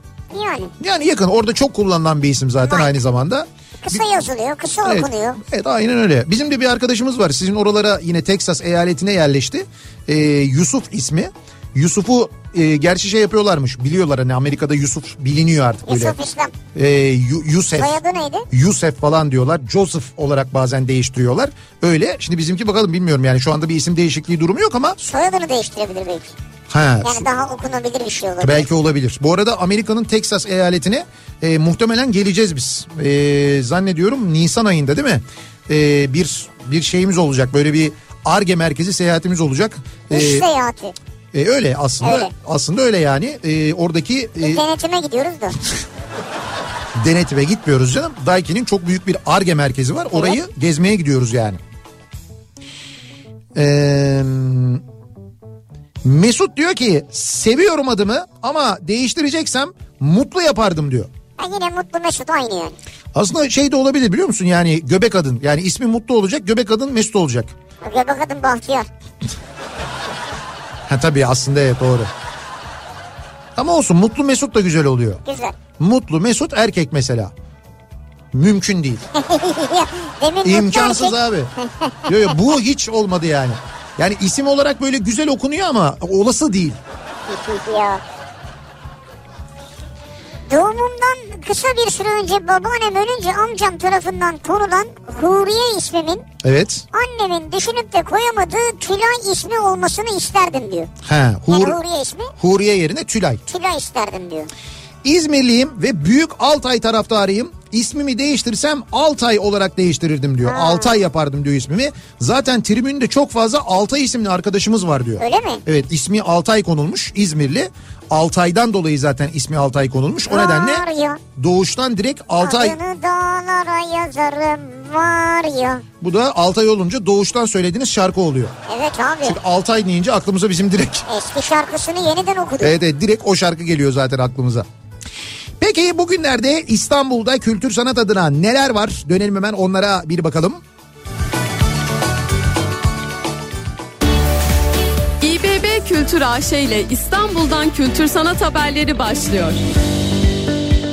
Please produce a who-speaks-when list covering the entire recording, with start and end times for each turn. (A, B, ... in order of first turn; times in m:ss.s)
0:00.3-0:00.7 A
0:00.8-0:04.0 B
0:02.6-0:02.9 A
0:03.8-0:05.4 A
0:04.8-0:16.2 B
0:15.9-0:16.6 A
0:16.7-0:25.0 B
0:17.8-0:18.5 A
0:25.0-0:26.3 A
0:26.7-0:27.3 B
0:27.0-0:28.7 A
0:28.4-0:40.5 B
0:40.1-0:41.0 A
0:41.3-0:44.6 B
0:42.0-0:42.3 A
0:44.4-0:45.6 A
0:47.0-0:51.6 B
0:50.1-0:50.4 A
0:53.6-0:54.8 B
0:56.0-1:01.1 B
1:01.4-1:02.8 A
1:03.1-1:07.5 B
1:07.8-1:08.9 A
1:10.9-1:12.1 B
1:13.6-1:15.2 B
1:15.2-1:15.6 A
1:15.8-1:17.3 B
1:18.3-1:19.0 B
1:19.1-1:22.3 A
1:20.4-1:21.5 B
1:22.1-1:26.8 B
1:27.3-1:28.0 A
1:30.5-1:36.3 A
1:36.4-1:36.9 B
1:36.9-1:40.9 A
1:41.0-1:41.8 B
1:41.5-1:42.3 A
1:42.4-1:43.4 B
1:43.5-1:44.5 A
1:45.0-2:00.8 B
1:50.4-1:51.0 A
1:55.2-1:55.6 A
2:00.3-2:01.2 A
2:01.4-2:02.8 B
2:02.4-2:05.8 A
2:06.0-2:08.5 B
2:08.7-2:09.4 A
2:09.2-2:11.1 B
2:11.1-2:12.7 A
2:12.6-2:14.6 B
2:15.6-2:20.6 B
2:25.2-2:29.6 C